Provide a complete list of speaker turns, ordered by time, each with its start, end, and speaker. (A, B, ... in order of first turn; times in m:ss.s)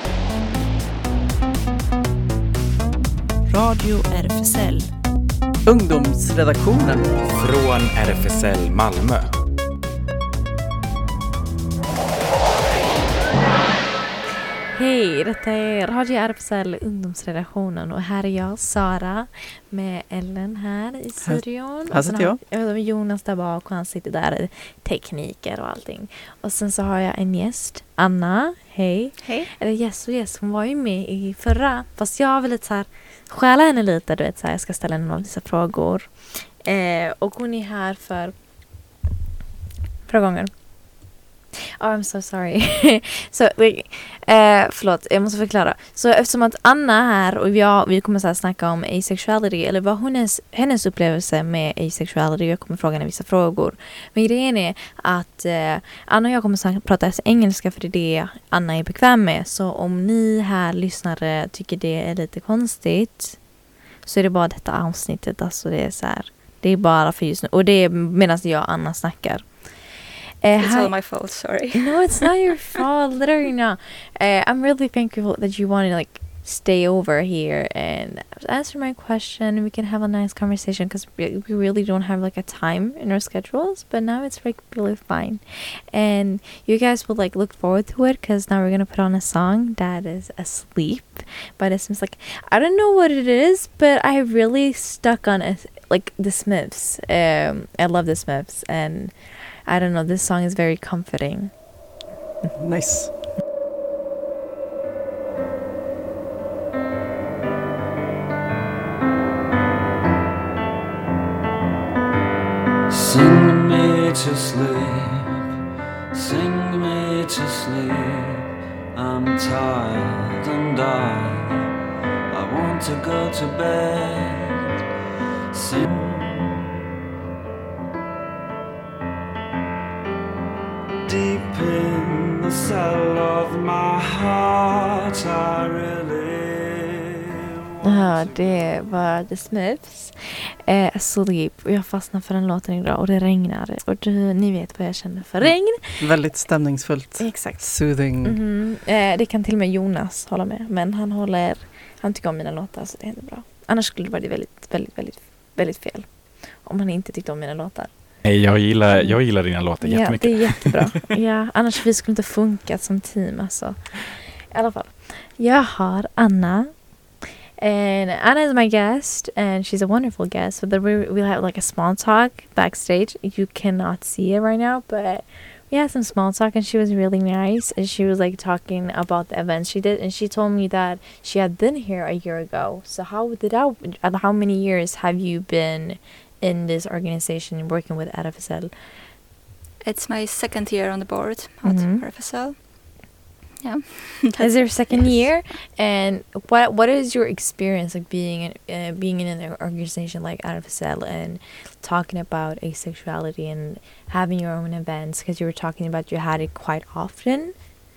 0:03.5-0:04.9 A
0:05.7-0:07.2 B
0:07.2-0:09.3 C
0:14.7-0:38.4 A
0:21.2-0:22.4 B
0:29.2-0:29.5 D
0:40.1-0:41.1 A
0:41.8-1:03.4 A
1:04.0-1:41.7 A
1:10.6-1:12.3 D
1:42.6-1:43.1 B
1:52.9-1:55.5 E
1:56.1-2:01.6 E
2:02.3-2:04.7 E
2:05.5-2:06.7 E
2:11.0-2:17.2 E
2:17.8-2:18.9 E
2:17.8-2:26.2 A
2:25.4-2:28.4 B
2:27.2-2:38.2 A
2:38.2-2:41.0 C
2:39.0-3:08.7 A
3:09.8-3:13.0 D
3:11.6-3:12.0 A
3:13.6-3:15.3 D
3:14.4-3:27.5 A